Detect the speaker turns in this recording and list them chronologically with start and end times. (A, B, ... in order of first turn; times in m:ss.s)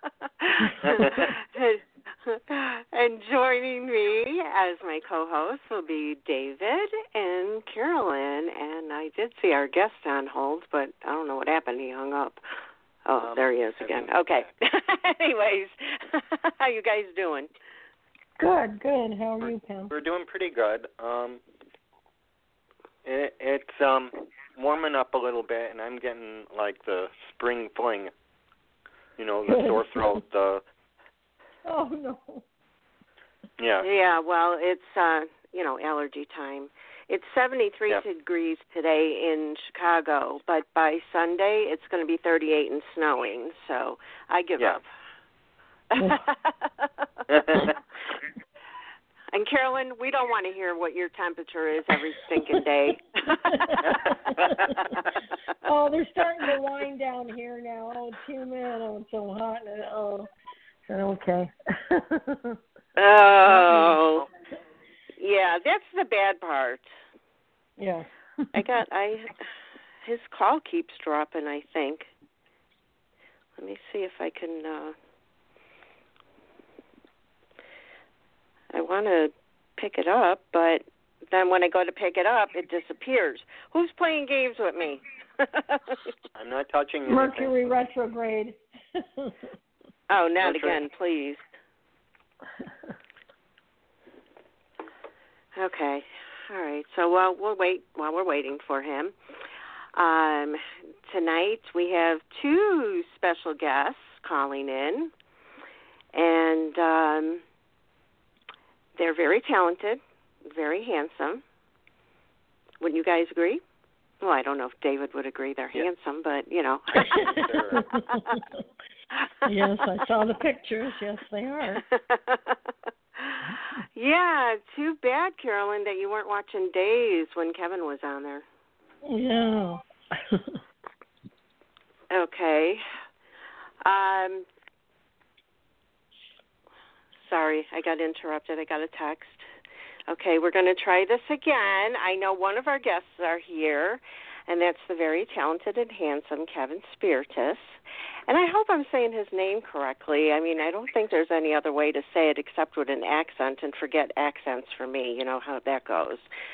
0:00.4-0:12.4 A
0:00.8-0:01.3 B
0:13.1-0:17.5 A
0:13.2-0:14.5 B
0:18.4-0:19.9 C
0:19.4-0:21.4 B
0:23.0-0:28.1 B
0:29.2-0:30.6 B
0:29.4-0:30.2 C
0:31.6-0:32.4 C
0:33.6-0:33.9 B
0:33.8-0:44.8 A
0:45.9-0:46.9 A
0:47.3-0:47.7 B
0:49.3-0:54.1 A
0:53.5-0:55.0 C
0:53.9-0:54.6 B
0:55.6-1:00.3 C
1:00.9-1:02.5 C
1:03.0-1:04.3 A
1:03.7-1:04.0 C
1:05.2-1:06.8 A
1:07.8-1:08.6 C
1:08.5-1:09.3 A
1:10.0-1:12.1 A
1:13.6-1:15.0 A
1:18.7-1:26.1 A
1:26.4-1:27.7 B
1:27.1-1:28.6 C
1:30.1-1:31.4 A
1:30.4-1:30.8 B
1:35.6-1:39.1 A
1:40.0-1:45.1 A
1:46.1-1:47.4 A
1:49.0-1:51.4 A
1:52.8-1:53.6 A
1:54.2-1:57.1 A
1:57.0-1:58.4 C
1:57.0-1:58.0 B
1:59.4-2:01.8 C
2:02.1-2:02.5 A
2:03.2-2:08.4 A
2:09.0-2:10.5 C
2:12.1-2:12.8 A
2:13.8-2:14.5 A
2:17.2-2:19.4 A
2:20.1-2:36.3 A